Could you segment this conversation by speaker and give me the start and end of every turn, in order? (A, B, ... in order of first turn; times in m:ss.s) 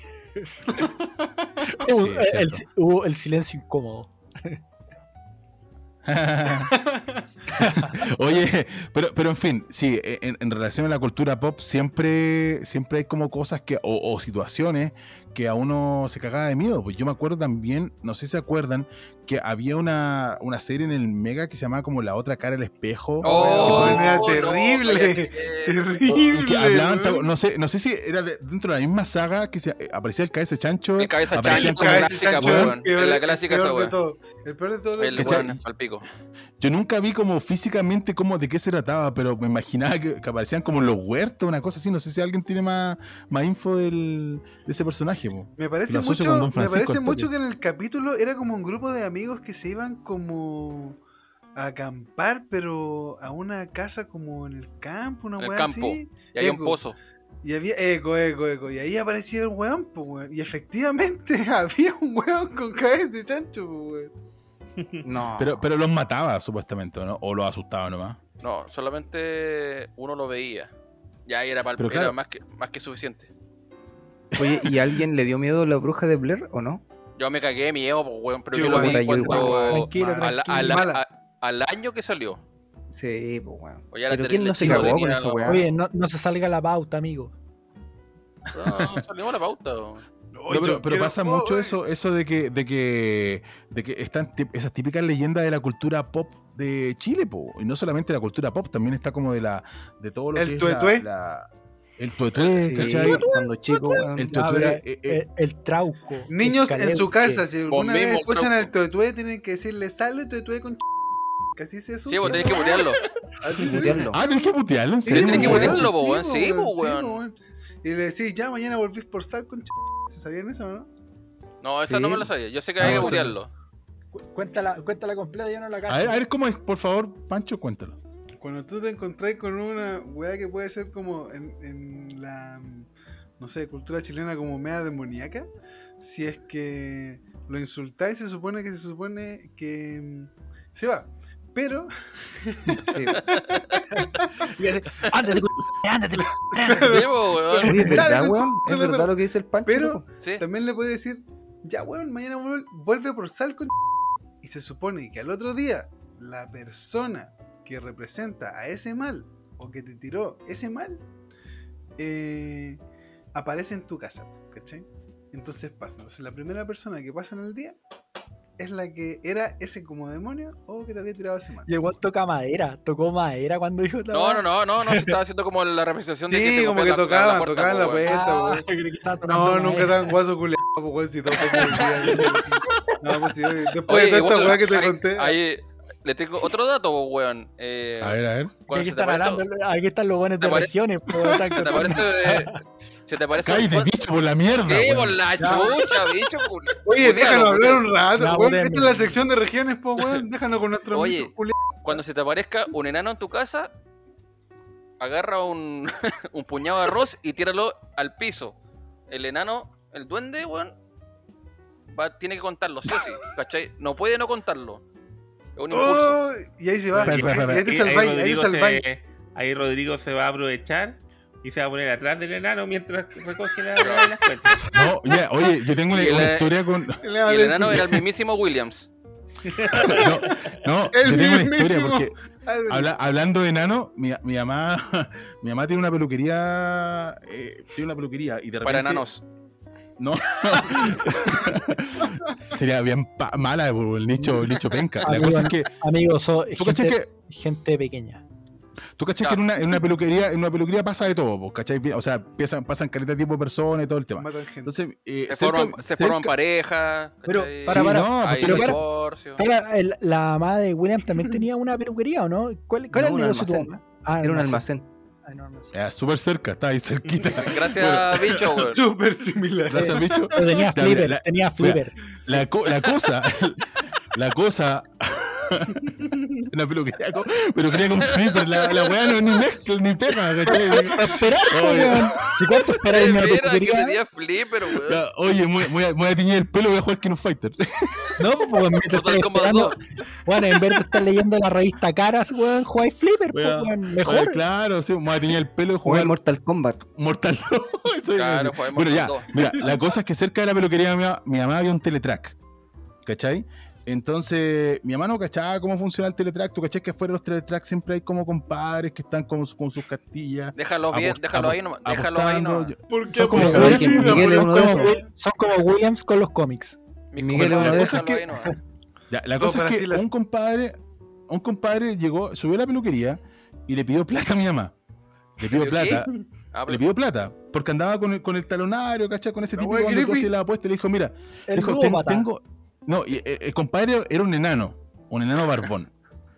0:01.7-0:04.6 A
0:01.8-0:02.7 B
0:06.0-0:06.8 B
0:06.8-0:07.1 C
0:07.5-0:24.3 B
0:07.6-0:07.9 A
0:23.2-0:25.8 D
0:23.2-0:27.3 C
0:26.2-0:32.8 B
0:31.0-0:34.0 D
0:31.4-0:35.5 C
0:35.0-0:36.0 D
0:35.2-0:35.6 B
0:36.6-0:47.3 B
0:45.6-0:51.0 C
0:51.6-0:56.8 C
0:55.4-0:57.0 D
0:57.4-1:04.1 C
1:05.0-1:05.6 E
1:05.4-1:08.2 B
1:08.4-1:10.7 D
1:11.3-1:13.3 D
1:11.8-1:12.2 B
1:14.3-1:14.9 B
1:14.4-1:16.8 E
1:17.2-1:22.4 D
1:18.5-1:21.0 C
1:18.6-1:19.7 E
1:19.2-1:20.9 A
1:22.9-1:25.7 E
1:23.9-1:25.6 D
1:25.5-1:27.3 A
1:28.5-1:30.0 D
1:28.6-1:29.0 B
1:30.3-1:31.8 C
1:30.5-1:43.3 B
1:40.4-1:41.1 C
1:42.6-1:44.4 E
1:44.1-1:45.2 B
1:44.2-1:47.4 A
1:46.3-1:50.8 C
1:47.7-1:48.7 D
1:51.6-1:54.1 C
1:52.1-1:53.0 D
1:53.6-1:54.2 E
1:54.1-1:55.9 B
1:55.0-2:00.9 C
1:55.1-1:57.2 D
2:01.6-2:03.5 D
2:01.8-2:02.3 E
2:02.8-2:03.2 B
2:02.8-2:03.3 E
2:02.8-2:03.3 A
2:04.1-2:06.2 A
2:05.9-2:08.0 B
2:08.4-2:15.5 C
2:16.0-2:24.5 C
2:22.8-2:23.3 E
2:23.9-2:27.0 A
2:26.5-2:29.1 C
2:26.8-2:28.1 D
2:27.6-2:28.0 A
2:27.6-2:30.0 E
2:29.7-2:33.8 C
2:34.4-2:41.1 C
2:42.0-2:42.8 C
2:43.4-2:47.8 C
2:48.6-2:51.7 C
2:51.7-2:55.2 A
2:54.1-2:58.0 D
2:56.3-2:58.7 C
2:58.0-3:00.2 A
2:59.2-3:05.4 C
3:01.4-3:02.4 A
3:01.5-3:02.3 D
3:03.9-3:09.4 D
3:08.0-3:08.6 B
3:08.7-3:12.6 A
3:10.4-3:10.7 D
3:11.5-3:12.5 D
3:13.1-3:14.1 D
3:13.4-3:15.2 B
3:14.6-3:17.9 D
3:15.4-3:15.9 A
3:16.8-3:22.0 C
3:18.2-3:19.2 A
3:20.9-3:21.3 D
3:21.8-3:23.7 D
3:25.0-3:28.6 D
3:29.1-3:30.7 D
3:31.9-3:34.8 D
3:35.6-3:36.2 D
3:35.7-3:38.8 C
3:36.9-3:44.8 F
3:37.0-3:37.8 B
3:43.8-3:44.1 D
3:44.7-3:47.0 B
3:45.9-3:46.6 D
3:47.0-3:48.0 C
3:47.2-3:48.9 D
3:49.5-3:50.6 F
3:49.8-3:52.2 B
3:50.9-3:52.9 C
3:52.7-3:59.1 B
3:58.6-3:59.2 D
4:00.0-4:05.7 B
4:05.0-4:08.2 A
4:06.6-4:07.1 B
4:09.0-4:16.4 B
4:14.2-4:14.7 C
4:15.3-4:19.4 D
4:17.2-4:18.8 A
4:17.7-4:18.8 B
4:19.4-4:24.7 A
4:22.9-4:24.9 E
4:25.3-4:25.8 A
4:25.7-4:28.4 B
4:27.3-4:28.8 D
4:28.4-4:30.4 C
4:29.7-4:35.9 B
4:30.3-4:32.0 A
4:32.7-4:33.0 D
4:36.5-4:42.3 B
4:37.9-4:39.0 D
4:40.5-4:44.0 A
4:42.9-4:45.0 D
4:44.8-4:48.1 B
4:48.2-4:54.4 A
4:48.8-4:49.8 D
4:53.3-4:56.2 B
4:55.8-4:56.8 E
4:56.9-5:02.4 B
4:58.1-4:59.4 D
5:03.0-5:14.5 B
5:10.6-5:12.7 D
5:12.9-5:15.0 C
5:13.3-5:16.8 A
5:13.3-5:15.0 E
5:17.1-5:18.6 D
5:17.2-5:18.0 E
5:17.3-5:18.3 B
5:19.1-5:20.8 B
5:19.4-5:20.1 C
5:21.3-5:24.7 B
5:25.4-5:26.1 B
5:25.4-5:26.8 D
5:26.7-5:35.9 B
5:29.6-5:30.3 C
5:31.5-5:32.3 A